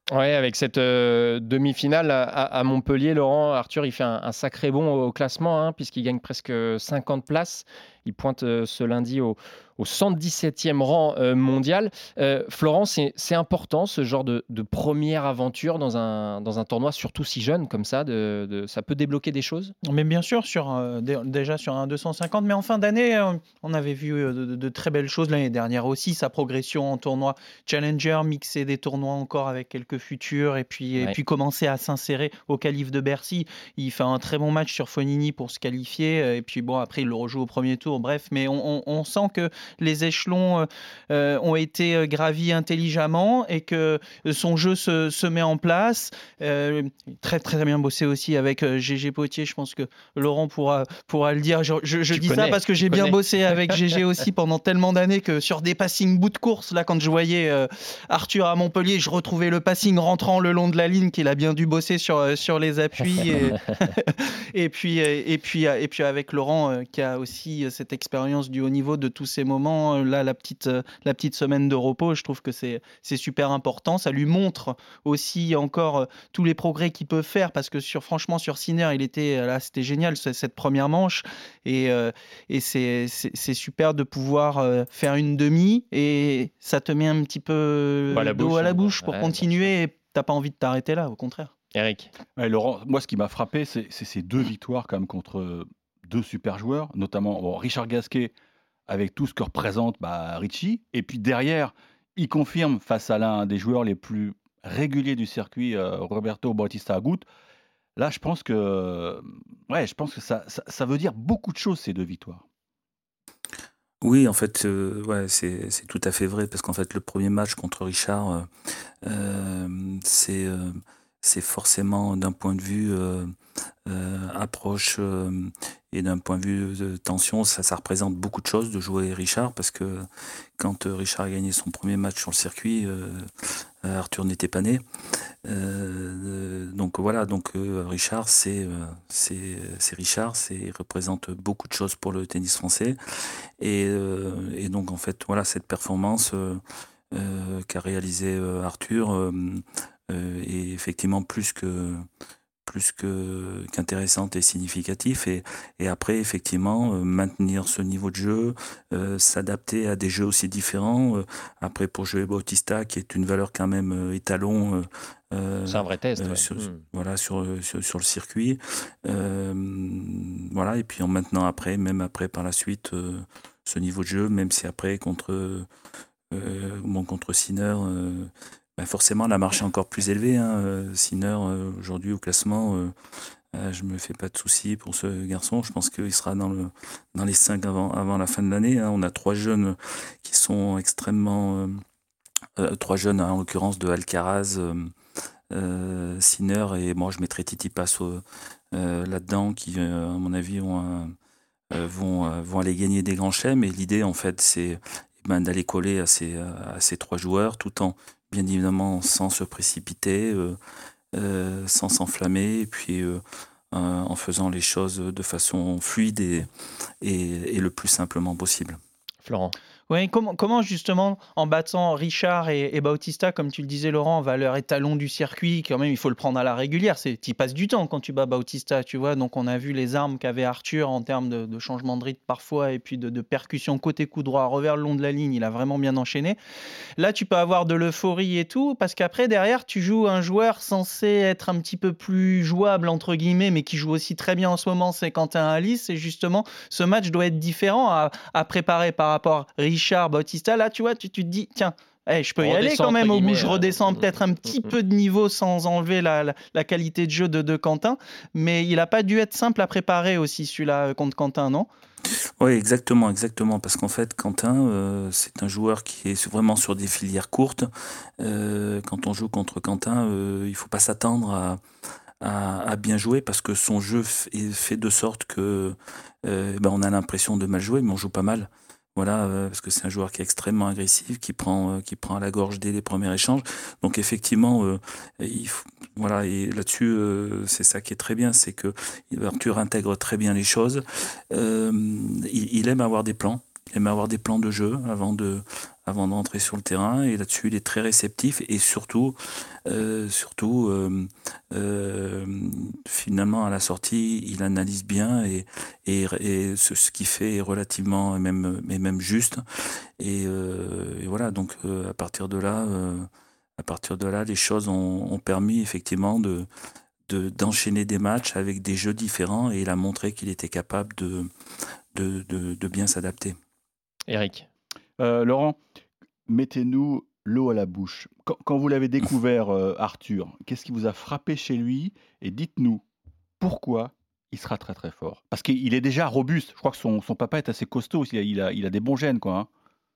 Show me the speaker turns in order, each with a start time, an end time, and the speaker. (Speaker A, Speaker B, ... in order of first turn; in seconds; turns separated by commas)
Speaker A: 0.1-19.7, Speaker B: 19.9-91.5, Speaker A: 52.1-53.2, Speaker A: 63.0-63.9, Speaker A: 88.1-89.7, Speaker A: 91.7-92.1, Speaker C: 92.4-98.3, Speaker C: 98.9-107.3, Speaker C: 108.0-112.5, Speaker D: 114.0-118.5, Speaker D: 119.0-123.3, Speaker D: 123.9-130.1, Speaker D: 130.6-133.3, Speaker D: 133.8-134.8, Speaker D: 135.4-143.0, Speaker D: 143.6-152.1, Speaker D: 152.7-175.7, Speaker A: 165.7-166.8, Speaker D: 176.3-182.9, Speaker D: 183.5-191.8, Speaker D: 192.6-194.9, Speaker D: 195.5-201.2, Speaker D: 201.7-210.6, Speaker D: 211.1-216.5, Speaker D: 217.0-218.8, Speaker A: 219.2-219.6, Speaker B: 219.9-236.4, Speaker B: 237.0-261.7, Speaker A: 252.4-254.7, Speaker D: 262.4-267.7, Speaker D: 268.2-271.6, Speaker D: 272.2-309.4, Speaker D: 310.0-316.5, Speaker D: 317.1-321.3, Speaker D: 321.9-323.4, Speaker A: 324.1-324.5, Speaker C: 325.0-325.6, Speaker C: 326.3-332.8, Speaker C: 333.4-339.5